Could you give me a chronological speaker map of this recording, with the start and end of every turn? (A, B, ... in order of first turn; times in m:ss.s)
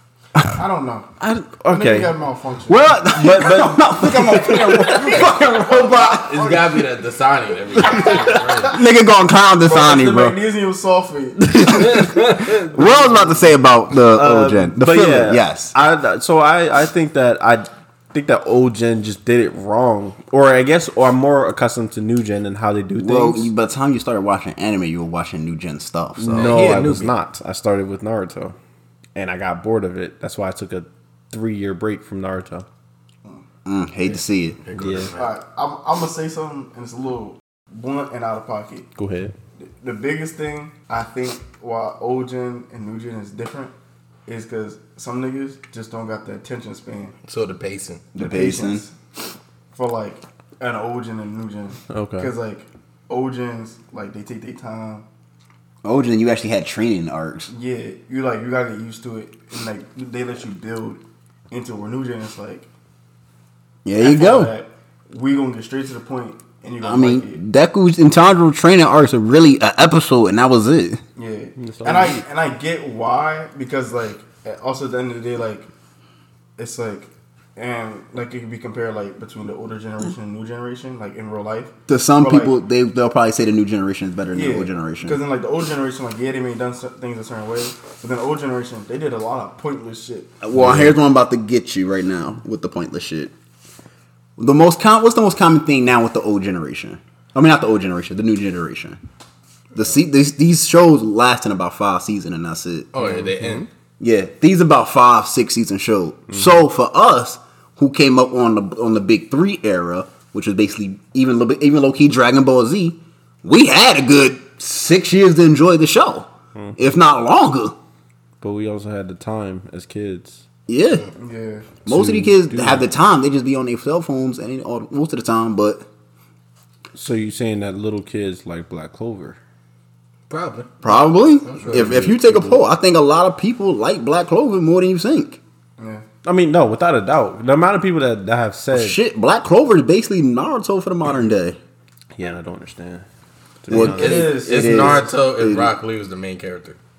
0:00.5-0:01.1 A
0:01.2-0:02.1 B
0:01.7-0:03.1 A
0:02.7-0:06.4 C
0:03.1-0:05.2 B
0:04.8-0:06.8 A
0:06.0-0:08.8 D
0:07.8-0:08.4 A
0:07.9-0:08.4 B
0:08.7-0:10.4 C
0:09.6-0:12.0 A
0:11.5-0:12.2 B
0:11.8-0:12.7 D
0:12.7-0:15.7 C
0:14.1-0:23.5 B
0:23.0-0:26.7 C
0:26.2-0:28.6 B
0:26.3-0:27.1 D
0:29.1-0:32.6 B
0:33.6-0:34.6 C
0:34.6-0:35.3 D
0:34.7-0:35.1 B
0:35.2-0:38.9 A
0:39.0-0:39.3 B
0:39.6-0:43.7 A
0:44.2-0:47.1 A
0:47.3-0:48.0 D
0:48.1-0:48.8 C
0:48.2-0:48.9 A
0:49.7-0:55.0 A
0:51.9-0:52.3 B
0:55.8-0:57.5 C
0:57.5-1:01.0 A
1:01.5-1:02.7 A
1:03.8-1:04.5 C
1:04.0-1:07.4 A
1:06.8-1:11.0 C
1:11.2-1:15.7 A
1:11.6-1:12.2 B
1:16.6-1:22.5 A
1:21.9-1:25.2 C
1:24.3-1:30.4 A
1:30.4-1:33.3 C
1:34.4-1:39.0 C
1:39.7-1:42.9 C
1:42.9-1:43.6 D
1:43.0-1:43.6 B
1:44.0-1:57.7 C
1:58.4-2:00.4 B
2:00.7-2:01.0 C
2:01.2-2:01.7 A
2:01.8-2:02.9 B
2:01.8-2:05.8 C
2:06.9-2:09.4 B
2:10.3-2:11.9 D
2:10.8-2:15.4 C
2:11.6-2:11.9 A
2:11.7-2:12.6 B
2:15.8-2:16.0 A
2:16.2-2:19.0 B
2:18.7-2:21.6 C
2:22.2-2:23.0 B
2:23.6-2:24.4 B
2:23.7-2:25.7 C
2:23.7-2:26.8 D
2:23.7-2:25.1 A